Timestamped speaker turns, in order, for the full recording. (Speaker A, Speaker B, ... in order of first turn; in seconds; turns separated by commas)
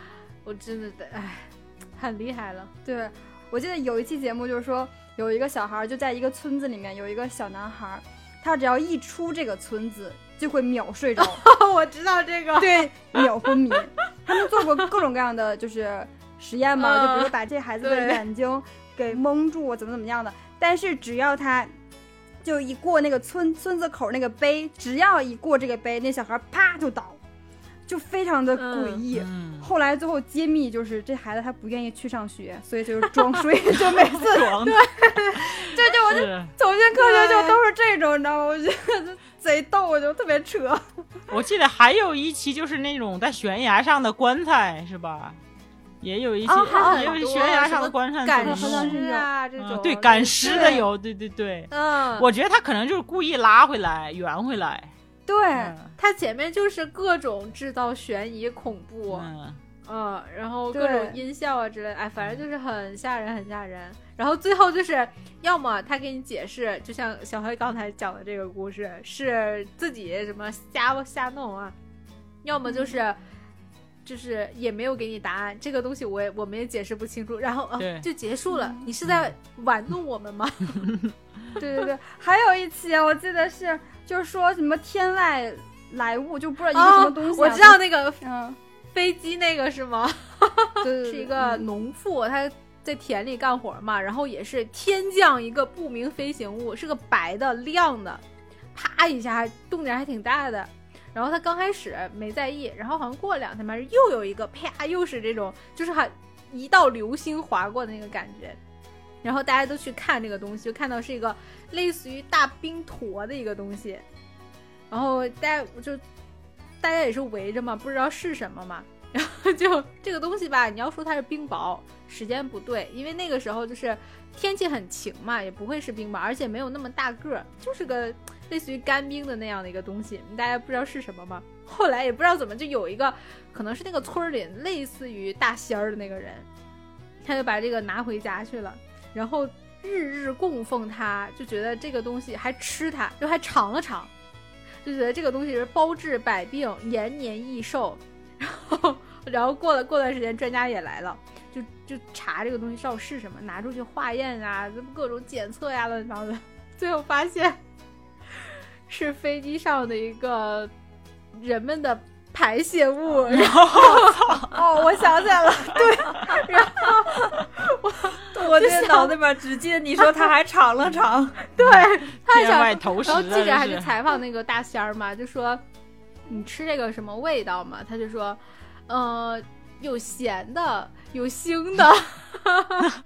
Speaker A: 0.4-2.7, Speaker B: 2.8-11.4, Speaker A: 11.2-12.9, Speaker B: 12.6-21.7, Speaker A: 16.8-18.2, Speaker B: 22.4-27.2, Speaker B: 27.9-34.7, Speaker A: 28.6-29.0, Speaker C: 29.1-29.7, Speaker C: 33.8-36.5, Speaker A: 34.6-35.4, Speaker B: 35.6-41.2, Speaker A: 36.9-37.6, Speaker C: 41.3-45.4, Speaker C: 46.0-49.0, Speaker A: 46.5-50.8, Speaker B: 46.5-47.2, Speaker B: 48.4-49.3, Speaker C: 49.6-54.9, Speaker B: 50.4-50.8, Speaker A: 51.7-52.3, Speaker B: 55.3-55.7, Speaker C: 55.5-55.9, Speaker A: 56.0-59.3, Speaker C: 59.1-59.6, Speaker A: 59.8-71.8, Speaker B: 60.7-61.2, Speaker C: 62.2-62.4, Speaker A: 72.4-73.2, Speaker B: 72.6-72.9, Speaker A: 74.0-80.9, Speaker C: 77.8-78.1, Speaker B: 78.5-78.9, Speaker B: 81.6-88.6, Speaker A: 86.7-88.2, Speaker A: 88.9-98.2, Speaker B: 90.8-91.8, Speaker A: 98.7-108.6, Speaker A: 109.2-114.0, Speaker A: 114.9-116.0, Speaker A: 116.8-136.5, Speaker A: 137.2-144.1, Speaker A: 144.8-157.6, Speaker A: 158.9-160.7, Speaker A: 161.3-164.4, Speaker C: 163.3-164.5, Speaker B: 164.5-166.7, Speaker A: 165.7-169.2, Speaker D: 168.3-171.5, Speaker A: 171.6-175.6, Speaker C: 171.6-173.9, Speaker A: 176.3-182.9